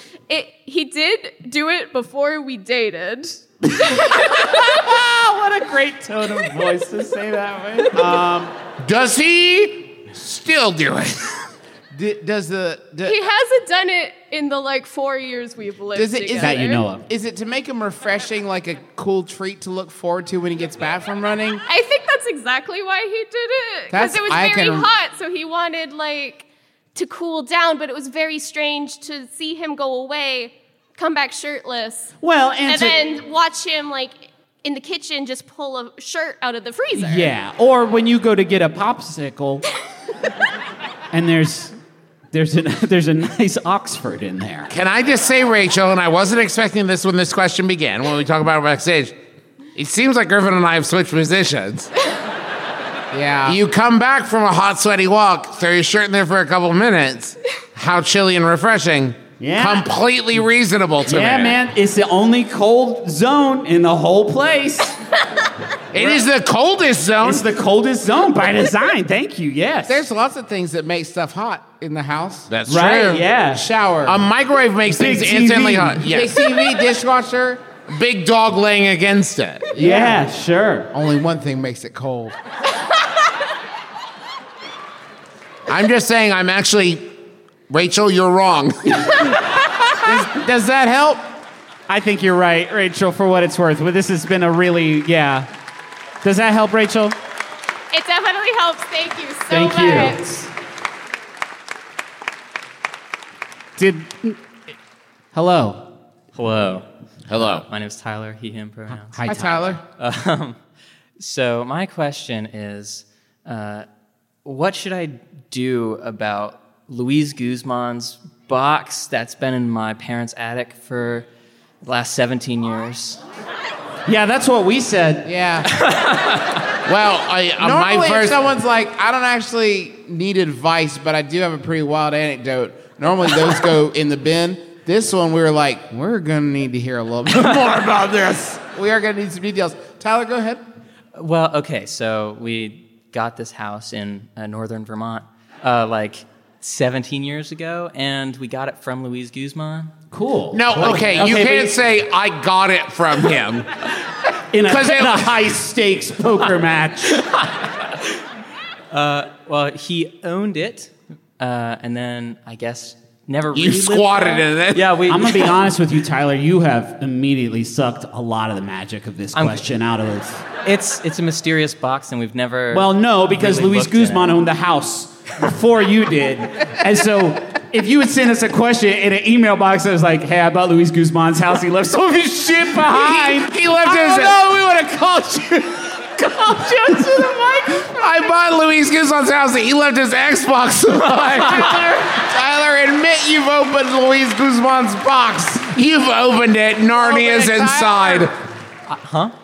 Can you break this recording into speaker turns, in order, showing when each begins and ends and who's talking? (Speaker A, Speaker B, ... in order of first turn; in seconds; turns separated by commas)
Speaker A: 0.3-4.6, Speaker B: 4.5-8.5, Speaker C: 8.8-11.4, Speaker D: 11.9-13.2, Speaker A: 13.1-16.9, Speaker D: 15.9-21.6, Speaker B: 16.3-17.0, Speaker A: 21.7-32.1, Speaker D: 23.9-24.9, Speaker B: 32.2-33.0, Speaker A: 32.6-37.3, Speaker B: 37.0-39.6, Speaker B: 41.1-41.8, Speaker B: 42.3-44.7, Speaker C: 44.7-49.1, Speaker C: 49.7-51.9, Speaker D: 53.1-53.6, Speaker C: 53.5-61.6, Speaker B: 59.4-59.9, Speaker B: 61.1-64.9, Speaker C: 65.9-67.4, Speaker B: 67.2-70.0, Speaker D: 69.9-72.8, Speaker C: 72.5-73.2, Speaker B: 72.7-73.6, Speaker D: 73.5-74.2, Speaker C: 74.0-76.4, Speaker B: 74.9-76.0, Speaker D: 76.0-77.6, Speaker C: 77.9-79.7, Speaker D: 79.7-80.2, Speaker B: 79.8-80.9, Speaker D: 80.9-82.3, Speaker C: 85.7-87.1, Speaker C: 87.7-89.3, Speaker D: 90.0-91.2, Speaker B: 91.9-95.5, Speaker B: 96.2-97.1, Speaker A: 97.9-100.2, Speaker B: 99.5-100.5, Speaker B: 103.8-104.4, Speaker B: 105.3-105.9, Speaker E: 106.3-109.2, Speaker C: 107.3-107.7, Speaker B: 108.9-109.7, Speaker D: 109.2-109.8, Speaker E: 110.0-110.6, Speaker E: 111.2-113.8, Speaker E: 114.4-121.3, Speaker E: 121.8-123.2, Speaker B: 124.1-125.3, Speaker D: 125.2-125.7, Speaker E: 125.8-126.2, Speaker C: 126.8-128.4, Speaker D: 127.6-140.6, Speaker C: 137.3-138.5, Speaker E: 141.1-149.9, Speaker B: 150.1-151.7, Speaker C: 150.5-153.7, Speaker B: 154.5-157.2, Speaker C: 154.7-155.3, Speaker E: 158.9-165.5, Speaker C: 163.5-164.9, Speaker B: 165.1-170.4, Speaker E: 169.3-169.6, Speaker E: 170.6-174.4, Speaker B: 172.7-187.8, Speaker C: 182.9-184.4, Speaker C: 187.9-191.9, Speaker D: 192.1-195.7, Speaker C: 195.7-198.3, Speaker D: 196.8-198.3, Speaker E: 198.9-199.3